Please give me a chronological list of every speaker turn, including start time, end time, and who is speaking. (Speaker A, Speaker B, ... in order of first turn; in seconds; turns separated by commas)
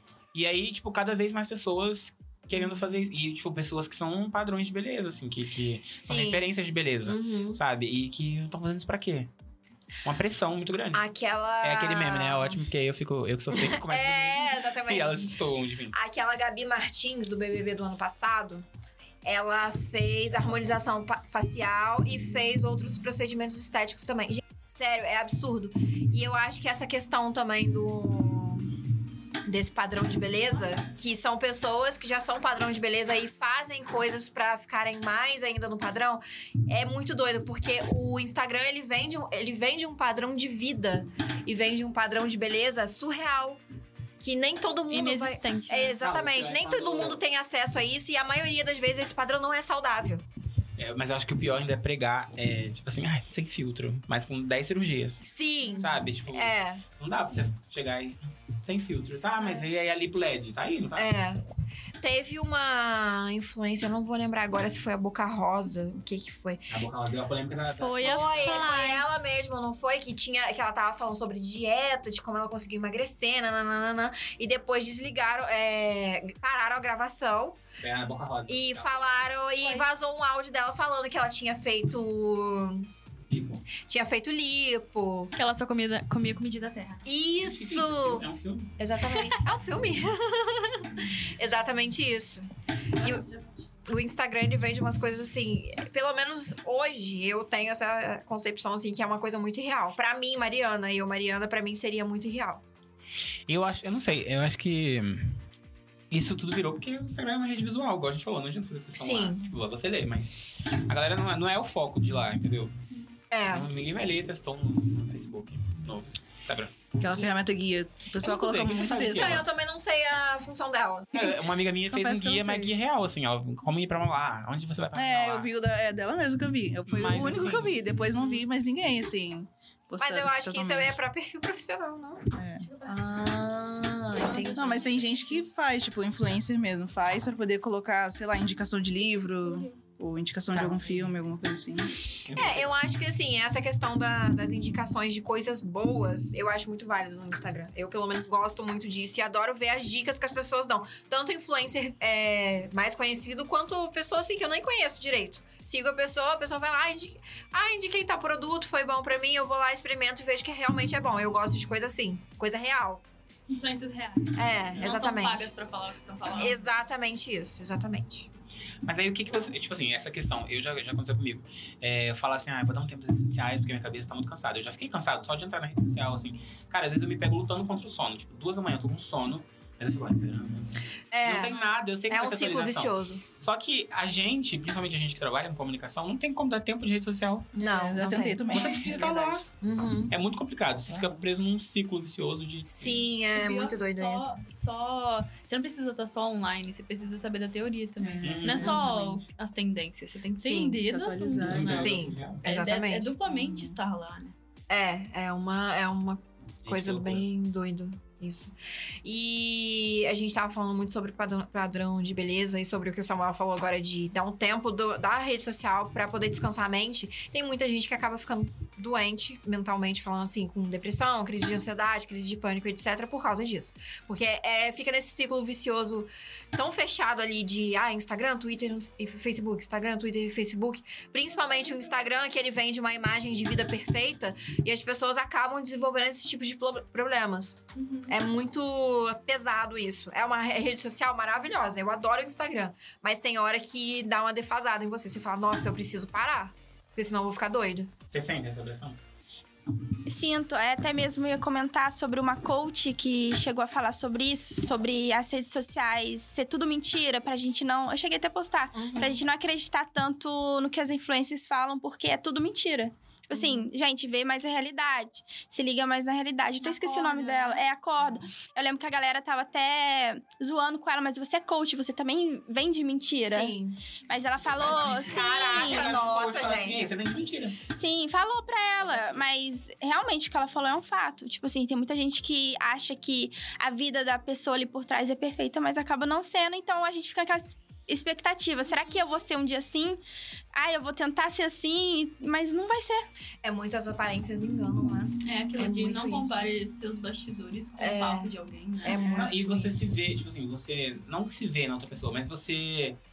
Speaker A: 0.3-9.3, Speaker B: 2.5-2.8, Speaker B: 5.9-6.5, Speaker B: 7.1-7.6, Speaker A: 10.0-11.0, Speaker B: 10.9-12.6, Speaker A: 11.6-15.9, Speaker B: 13.5-18.7, Speaker B: 19.2-28.8, Speaker B: 29.4-43.6, Speaker B: 44.2-50.3, Speaker C: 44.9-46.0, Speaker A: 46.0-47.2, Speaker A: 50.8-55.3, Speaker B: 55.2-56.8, Speaker A: 55.8-61.1, Speaker B: 61.0-61.4, Speaker B: 62.0-66.6, Speaker A: 66.7-68.7, Speaker C: 67.6-69.0, Speaker B: 68.0-77.6, Speaker A: 77.8-79.3, Speaker B: 78.5-82.9, Speaker A: 83.3-83.7, Speaker B: 83.8-85.3, Speaker C: 85.3-87.1, Speaker B: 87.0-88.2, Speaker A: 87.4-88.8, Speaker B: 88.8-93.2, Speaker C: 93.0-93.6, Speaker B: 93.8-102.6, Speaker A: 103.5-105.4, Speaker A: 106.1-112.8, Speaker B: 109.0-109.4, Speaker B: 113.3-113.7, Speaker A: 113.5-116.8, Speaker D: 117.0-119.4, Speaker A: 118.2-119.5, Speaker B: 118.8-121.1, Speaker A: 121.1-125.5, Speaker D: 121.9-122.7, Speaker D: 124.9-130.9, Speaker A: 126.9-127.8, Speaker B: 127.9-128.4, Speaker C: 128.1-128.3, Speaker B: 130.0-132.3, Speaker D: 132.3-132.7, Speaker C: 132.6-133.3, Speaker B: 132.9-135.0, Speaker C: 134.1-135.5, Speaker D: 134.5-142.0, Speaker C: 139.2-139.7, Speaker A: 140.5-141.1, Speaker A: 142.2-142.7, Speaker B: 142.3-163.0, Speaker C: 163.5-166.6, Speaker B: 164.4-165.5, Speaker B: 166.3-168.3, Speaker A: 168.8-187.6, Speaker B: 181.1-183.2, Speaker B: 187.6-188.9, Speaker D: 187.6-189.4, Speaker A: 188.5-189.5, Speaker B: 189.6-190.1, Speaker A: 190.1-193.1, Speaker B: 192.7-194.3, Speaker C: 193.3-204.3, Speaker D: 198.0-199.2, Speaker A: 198.2-198.8, Speaker B: 200.4-200.8, Speaker D: 200.8-202.0, Speaker A: 201.4-202.4, Speaker B: 201.7-203.1, Speaker D: 203.3-203.8, Speaker B: 204.7-247.9, Speaker A: 206.7-207.3, Speaker C: 237.8-238.2, Speaker A: 248.1-249.0, Speaker E: 250.1-273.6, Speaker B: 258.7-259.2, Speaker B: 263.3-263.7, Speaker C: 266.6-268.2, Speaker B: 273.2-273.8, Speaker E: 274.1-276.0, Speaker A: 274.5-277.6, Speaker B: 275.1-276.9, Speaker E: 277.8-290.0, Speaker A: 278.8-279.3, Speaker E: 290.6-293.1, Speaker B: 293.4-296.4, Speaker C: 295.2-299.0, Speaker B: 297.8-298.3, Speaker B: 298.8-300.0, Speaker A: 298.9-303.0, Speaker D: 298.9-299.3